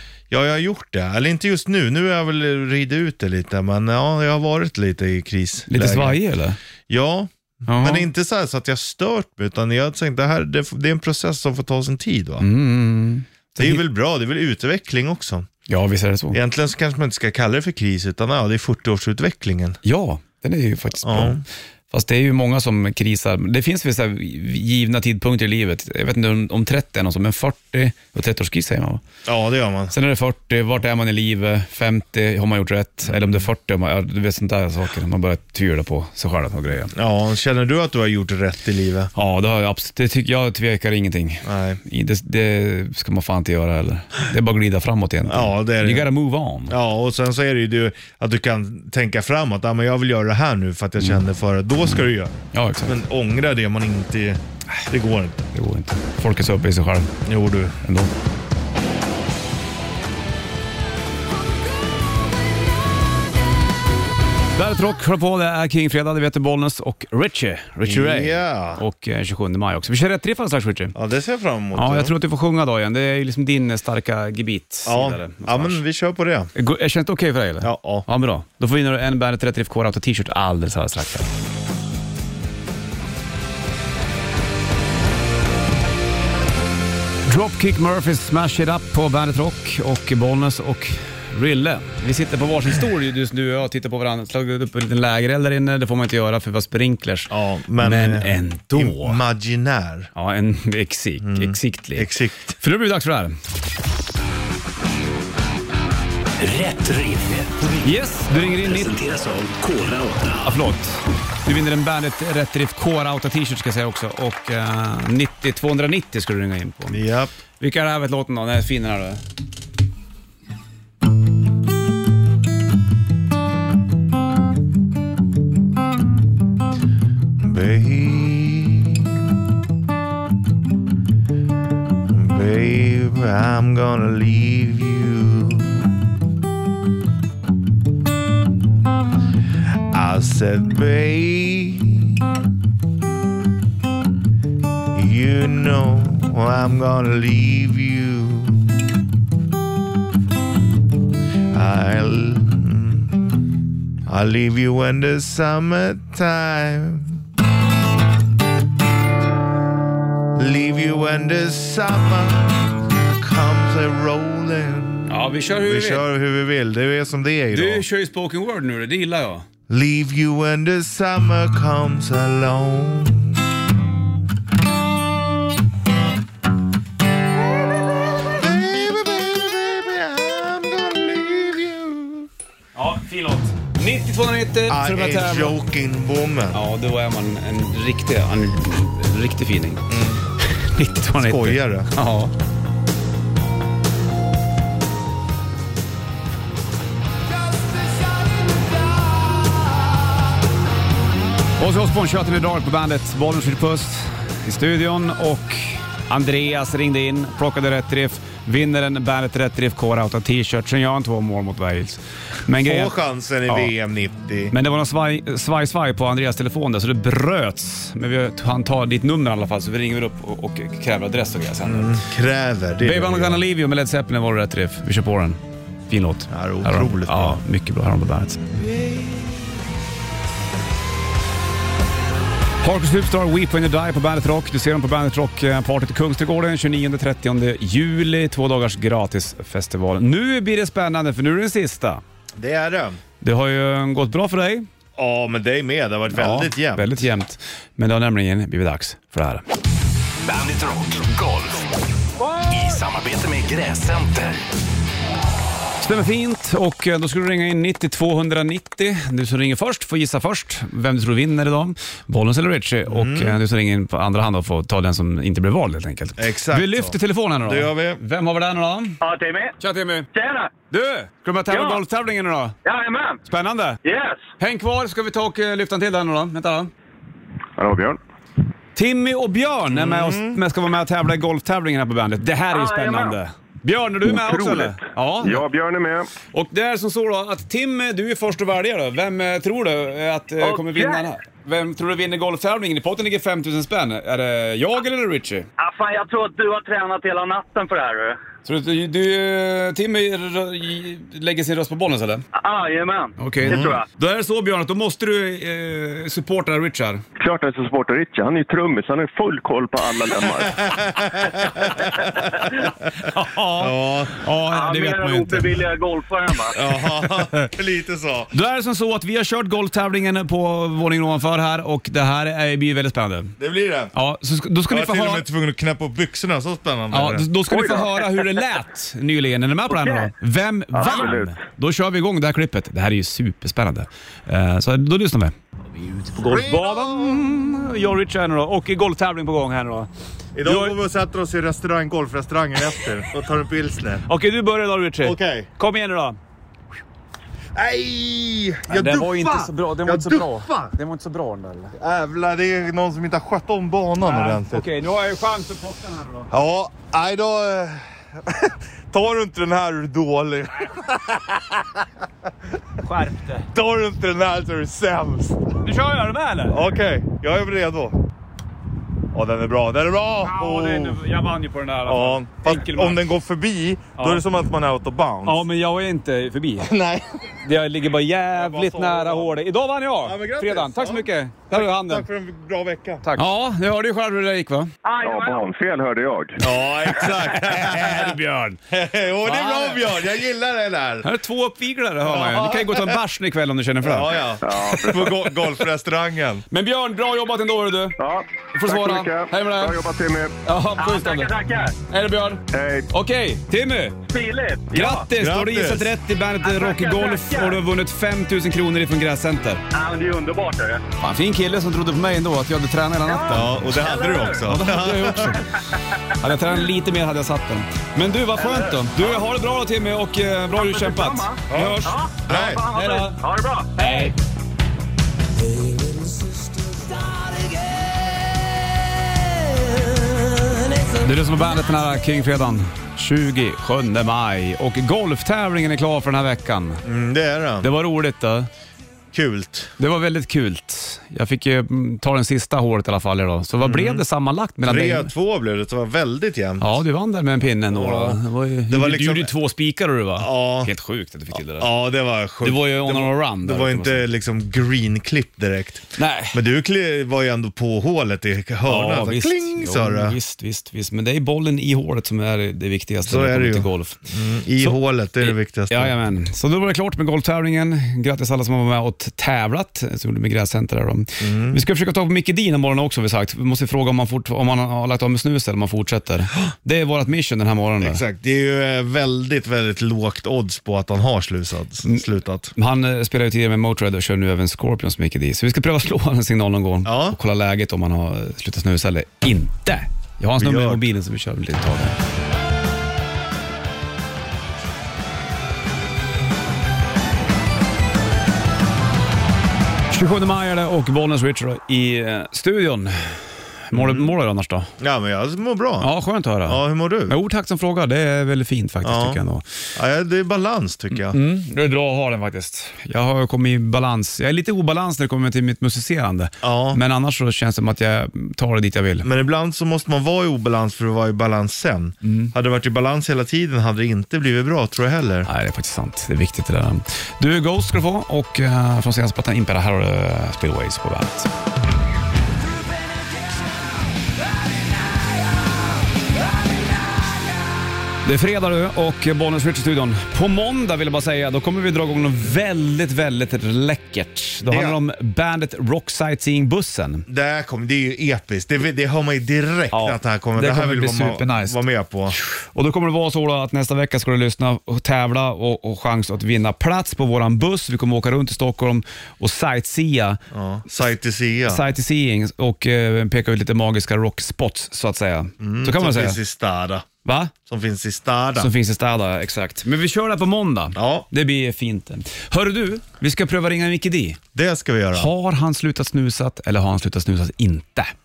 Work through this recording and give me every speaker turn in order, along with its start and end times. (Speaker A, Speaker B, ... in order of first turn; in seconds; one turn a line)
Speaker A: 0.3-6.2
Speaker B: 5.7-6.6
Speaker A: 6.9-12.5
Speaker B: 7.7-8.1
Speaker B: 12.4-13.8
Speaker A: 13.6-15.5
Speaker B: 15.7-16.4
Speaker A: 16.3-19.8
Speaker B: 19.8-29.0
Speaker A: 21.0-21.4
Speaker A: 29.2-29.9
Speaker B: 29.9-36.9
Speaker A: 33.1-33.4
Speaker A: 36.9-39.1
Speaker B: 39.1-46.8
Speaker A: 41.4-41.8
Speaker A: 45.3-46.1
Speaker A: 46.7-55.5
Speaker B: 51.9-53.0
Speaker B: 55.5-57.1
Speaker A: 57.2-57.8
Speaker B: 57.8-58.1
Speaker B: 64.5-70.9
Speaker A: 67.8-68.8
Speaker A: 71.0-72.1
Speaker B: 71.8-75.8
Speaker A: 74.9-76.5
Speaker B: 76.5-81.3
Speaker A: 77.6-78.1
Speaker B: 87.2-99.2
Speaker A: 97.3-100.1
Speaker B: 100.1-103.4
Speaker A: 101.2-102.6
Speaker C: 106.4-110.5
Speaker B: 107.8-109.0
Speaker B: 110.4-117.0
Speaker A: 116.9-117.3
Speaker B: 117.6-119.2
Speaker A: 127.4-129.3
Speaker A: 132.1-136.1
Speaker A: 139.9-142.3
Speaker A: 144.9-148.7
Speaker A: 151.5-153.4
Speaker A: 154.1-157.2
Speaker A: 160.3-167.8
Speaker B: 165.1-166.1
Speaker B: 167.5-169.5
Speaker A: 169.7-173.4
Speaker A: 178.1-182.3
Speaker B: 182.8-185.6
Speaker A: 184.7-186.6
Speaker B: 186.5-192.3
Speaker A: 189.9-190.2
Speaker A: 191.1-191.9
Speaker B: 201.6-212.9
Speaker A: 212.6-214.5
Speaker B: 214.5-222.0
Speaker A: 221.6-223.4
Speaker B: 222.8-228.5
Speaker A: 226.3-227.4
Speaker A: 228.6-229.3
Speaker B: 232.6-242.0
Speaker A: 242.4-243.0
Speaker B: 243.2-244.7
Speaker A: 245.0-247.0
Speaker B: 246.1-249.4
Speaker C: 250.2-251.7
Speaker C: 252.4-254.4
Speaker B: 255.8-269.0
Speaker A: 262.9-263.4
Speaker A: 266.2-268.0
Speaker D: 269.0-269.6
Speaker B: 269.6-270.1
Speaker D: 270.1-270.5
Speaker B: 270.7-272.6
Speaker D: 271.5-271.8
Speaker D: 272.6-273.2
Speaker B: 273.3-273.8
Speaker D: 273.8-274.2
Speaker B: 274.4-276.7
Speaker E: 277.6-278.0
Speaker B: 278.8-285.4
Speaker A: 279.7-280.4
Speaker D: 282.5-283.1
Speaker E: 284.1-286.1
Speaker B: 286.3-295.5
Speaker D: 290.4-291.1
Speaker D: 295.6-298.2
Speaker B: 298.4-302.2
Speaker D: 302.4-303.9
Speaker B: 303.2-307.0
Speaker A: 303.4-303.8
Speaker E: 307.2-310.7
Speaker A: 310.4-312.5
Speaker A: 313.0-314.2
Speaker B: 313.0-315.6
Speaker D: 314.5-316.6
Speaker A: 316.5-318.3
Speaker B: 318.3-323.4
Speaker A: 323.4-323.9
Speaker B: 323.9-325.2
Speaker A: 324.7-327.3
Speaker B: 326.9-335.4
Speaker D: 327.6-327.9
Speaker D: 329.7-330.1
Speaker E: 330.7-331.4
Speaker D: 330.8-331.1
Speaker B: 335.9-339.9
Speaker A: 336.1-337.3
Speaker A: 340.4-344.1
Speaker B: 340.4-340.8
Speaker B: 344.1-346.2
Speaker A: 345.0-345.5
Speaker A: 347.6-350.8
Speaker B: 348.7-351.8
Speaker A: 351.8-354.6
Speaker B: 354.0-356.3
Speaker A: 356.3-361.9
Speaker B: 362.8-363.5
Speaker A: 363.5-365.6
Speaker B: 365.6-366.6
Speaker A: 366.5-368.0
Speaker A: 369.1-371.0
Speaker B: 370.2-373.0
Speaker A: 371.9-375.4
Speaker B: 374.0-374.2
Speaker B: 375.2-376.7
Speaker A: 376.6-377.2
Speaker B: 377.4-382.1
Speaker A: 378.4-379.4
Speaker A: 380.0-383.2
Speaker B: 383.0-384.7
Speaker D: 384.8-385.5
Speaker E: 385.0-386.4
Speaker A: 386.4-391.1
Speaker B: 387.2-388.6
Speaker B: 389.2-389.9
Speaker B: 391.0-394.6
Speaker A: 392.1-393.0
Speaker A: 393.8-396.4
Speaker E: 394.4-395.1
Speaker B: 396.5-398.0
Speaker E: 398.0-400.3
Speaker B: 398.5-399.8
Speaker B: 400.4-401.3
Speaker D: 400.8-401.8
Speaker B: 401.9-404.0
Speaker E: 402.5-402.9
Speaker D: 404.1-405.1
Speaker B: 404.7-409.6
Speaker A: 405.1-405.9
Speaker D: 406.4-407.6
Speaker D: 409.7-410.8
Speaker B: 411.0-413.6
Speaker D: 413.1-414.4
Speaker A: 413.3-415.4
Speaker B: 414.5-415.5
Speaker B: 416.2-423.2
Speaker D: 418.4-419.2
Speaker D: 420.5-424.1
Speaker A: 422.3-422.6
Speaker B: 423.8-424.1
Speaker C: 425.4-427.9
Speaker C: 430.3-431.0
Speaker B: 431.0-436.8
Speaker A: 436.8-437.7
Speaker B: 437.6-438.5
Speaker A: 439.1-439.7
Speaker B: 439.8-445.1
Speaker A: 443.6-444.0
Speaker A: 444.6-446.8
Speaker B: 446.6-451.7
Speaker A: 447.7-449.3
Speaker A: 450.2-450.7
Speaker A: 451.3-460.2
Speaker B: 452.4-454.1
Speaker B: 456.0-456.4
Speaker B: 458.6-464.0
Speaker A: 463.1-466.0
Speaker B: 464.6-478.0
Speaker A: 471.2-471.6
Speaker A: 477.8-482.5
Speaker B: 481.8-492.0
Speaker A: 486.9-487.2
Speaker A: 490.4-490.8
Speaker B: 499.9-504.7
Speaker A: 503.7-504.1
Speaker A: 504.8-505.9
Speaker B: 505.8-509.4
Speaker A: 506.4-507.1
Speaker A: 508.8-509.2
Speaker A: 509.8-511.2
Speaker B: 510.9-519.1
Speaker A: 516.4-516.8
Speaker A: 519.0-525.3
Speaker B: 522.0-522.3
Speaker B: 525.3-531.3
Speaker C: 532.5-533.6
Speaker B: 538.0-547.1
Speaker A: 544.4-544.8
Speaker A: 547.1-552.1
Speaker B: 549.7-560.2
Speaker A: 560.3-561.6
Speaker B: 561.5-566.2
Speaker A: 565.4-568.5
Speaker B: 567.0-567.3
Speaker B: 568.4-574.2
Speaker A: 570.8-571.1
Speaker A: 574.4-575.1
Speaker B: 574.9-577.9